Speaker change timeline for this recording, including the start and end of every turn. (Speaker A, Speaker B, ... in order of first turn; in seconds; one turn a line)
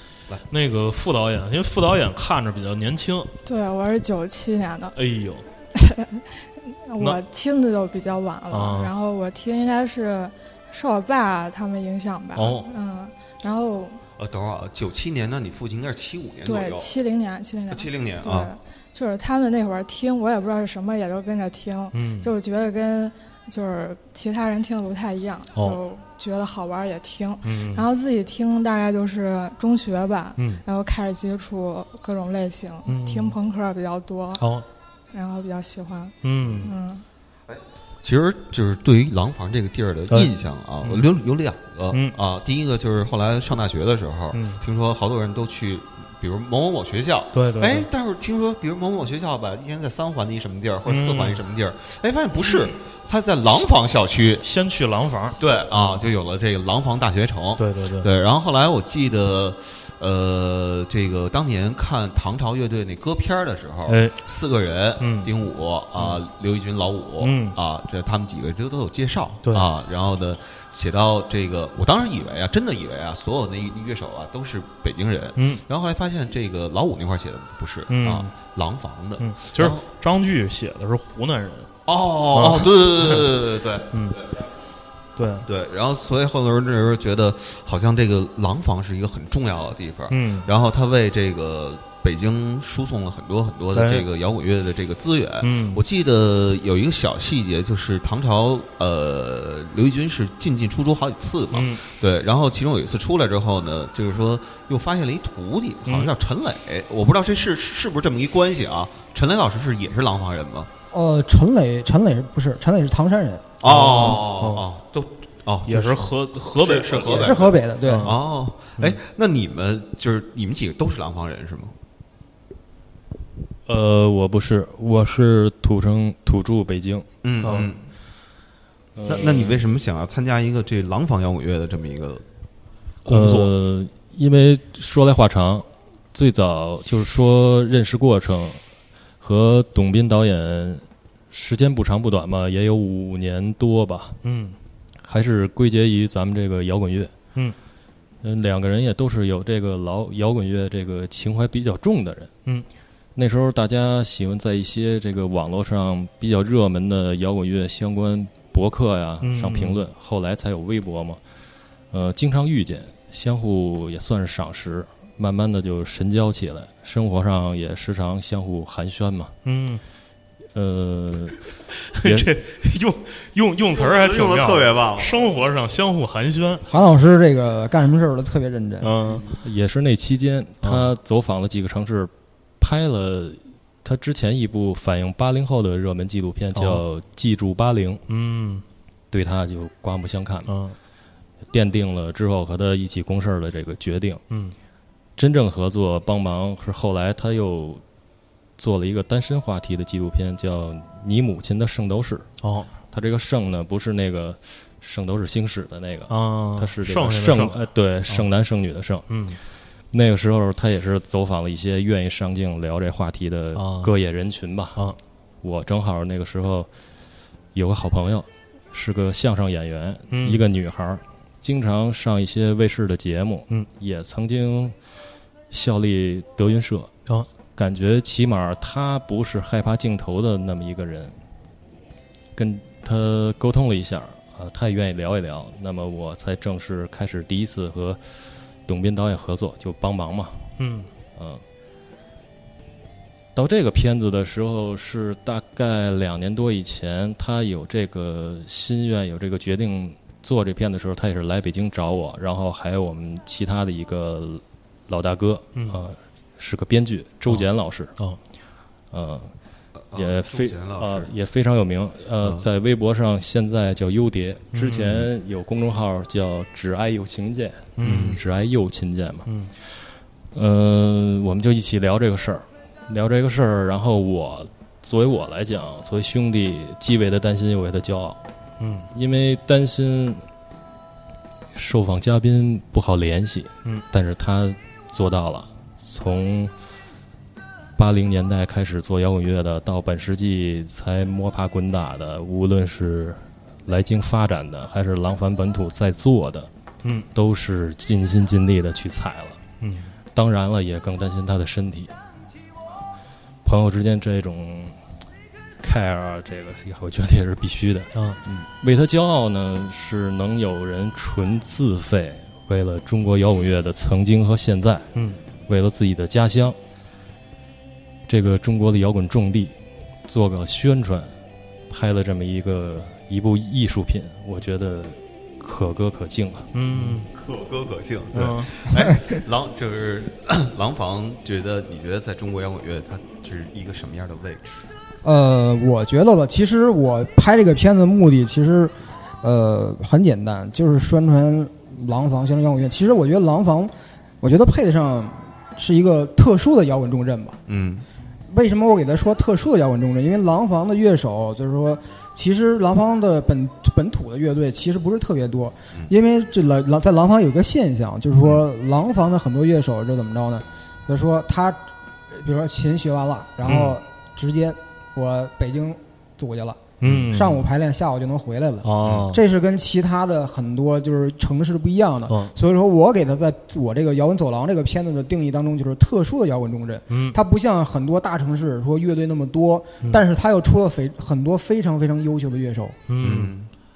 Speaker A: 0.5-3.3
Speaker B: 3.5-5.0
Speaker A: 5.0-5.5
Speaker B: 5.7-14.0
Speaker A: 8.5-8.9
Speaker A: 12.3-12.7
Speaker C: 14.2-16.9
Speaker B: 16.4-34.5
Speaker C: 17.7-18.5
Speaker A: 21.9-22.3
Speaker A: 27.4-27.9
Speaker A: 30.4-30.6
Speaker A: 32.9-33.4
Speaker A: 34.4-34.6
Speaker B: 35.1-37.0
Speaker A: 36.2-36.7
Speaker C: 37.5-54.5
Speaker A: 40.8-41.1
Speaker A: 41.9-42.2
Speaker A: 44.3-44.6
Speaker A: 47.3-47.9
Speaker A: 50.9-51.4
Speaker A: 54.4-56.0
Speaker C: 55.4-79.8
Speaker A: 57.6-58.1
Speaker A: 63.9-64.2
Speaker A: 65.0-65.3
Speaker A: 67.2-67.5
Speaker A: 75.4-75.6
Speaker A: 77.9-78.3
Speaker A: 79.2-81.7
Speaker C: 81.9-84.3
Speaker A: 82.3-83.3
Speaker A: 83.9-84.2
Speaker A: 85.2-85.5
Speaker C: 85.4-110.7
Speaker A: 90.1-90.5
Speaker A: 93.7-94.0
Speaker A: 95.4-95.8
Speaker A: 101.5-101.8
Speaker D: 110.9-113.5
Speaker C: 113.6-121.7
Speaker A: 113.6-114.6
Speaker A: 115.7-118.2
Speaker D: 117.1-118.1
Speaker E: 123.7-127.6
Speaker C: 127.2-127.8
Speaker E: 128.9-129.6
Speaker C: 129.1-132.2
Speaker E: 133.1-138.6
Speaker C: 133.1-133.4
Speaker A: 133.1-133.5
Speaker E: 139.2-144.2
Speaker A: 144.2-144.6
Speaker E: 145.0-147.1
Speaker E: 148.2-152.3
Speaker E: 153.1-161.2
Speaker A: 159.2-159.8
Speaker E: 161.9-169.3
Speaker A: 169.4-169.8
Speaker E: 170.5-171.4
Speaker A: 171.9-176.7
Speaker E: 172.0-172.3
Speaker C: 173.7-175.1
Speaker D: 176.7-178.9
Speaker A: 178.8-179.4
Speaker E: 179.3-188.0
Speaker A: 180.6-180.9
Speaker A: 186.5-186.8
Speaker A: 188.1-188.6
Speaker E: 189.1-190.5
Speaker A: 190.5-190.8
Speaker E: 191.5-194.2
Speaker A: 194.3-194.6
Speaker E: 195.2-197.8
Speaker E: 198.6-202.3
Speaker A: 202.4-202.7
Speaker E: 202.9-209.0
Speaker A: 206.1-208.3
Speaker A: 209.1-209.4
Speaker E: 209.9-214.8
Speaker A: 213.5-213.9
Speaker E: 215.4-216.7
Speaker E: 217.5-224.7
Speaker A: 220.1-220.4
Speaker E: 225.5-226.9
Speaker E: 227.5-231.1
Speaker E: 232.3-238.0
Speaker E: 238.6-240.4
Speaker A: 240.6-240.9
Speaker E: 241.2-241.4
Speaker E: 243.3-257.9
Speaker A: 255.5-255.8
Speaker A: 257.2-258.2
Speaker E: 258.9-259.3
Speaker C: 259.8-261.1
Speaker E: 259.9-269.3
Speaker C: 262.2-262.5
Speaker A: 264.5-265.1
Speaker A: 267.8-268.2
Speaker C: 267.8-268.2
Speaker A: 269.2-269.5
Speaker E: 270.3-278.2
Speaker A: 278.6-278.9
Speaker E: 278.9-280.2
Speaker E: 281.5-286.5
Speaker E: 287.8-296.5
Speaker A: 296.8-297.1
Speaker E: 297.1-299.4
Speaker A: 299.6-299.9
Speaker E: 300.1-301.9
Speaker E: 303.4-304.8
Speaker E: 305.6-314.9
Speaker A: 307.9-308.2
Speaker A: 314.9-315.2
Speaker E: 315.5-316.6
Speaker E: 318.1-319.5
Speaker E: 320.1-321.1
Speaker E: 321.7-326.5
Speaker A: 326.5-327.1
Speaker C: 327.1-334.6
Speaker A: 328.1-328.5
Speaker D: 335.0-347.4
Speaker C: 347.5-347.8
Speaker D: 348.3-382.8
Speaker A: 363.5-363.8
Speaker A: 366.8-367.4
Speaker A: 368.6-369.2
Speaker A: 372.1-372.3
Speaker A: 376.9-377.2
Speaker A: 382.9-383.4
Speaker C: 383.0-383.5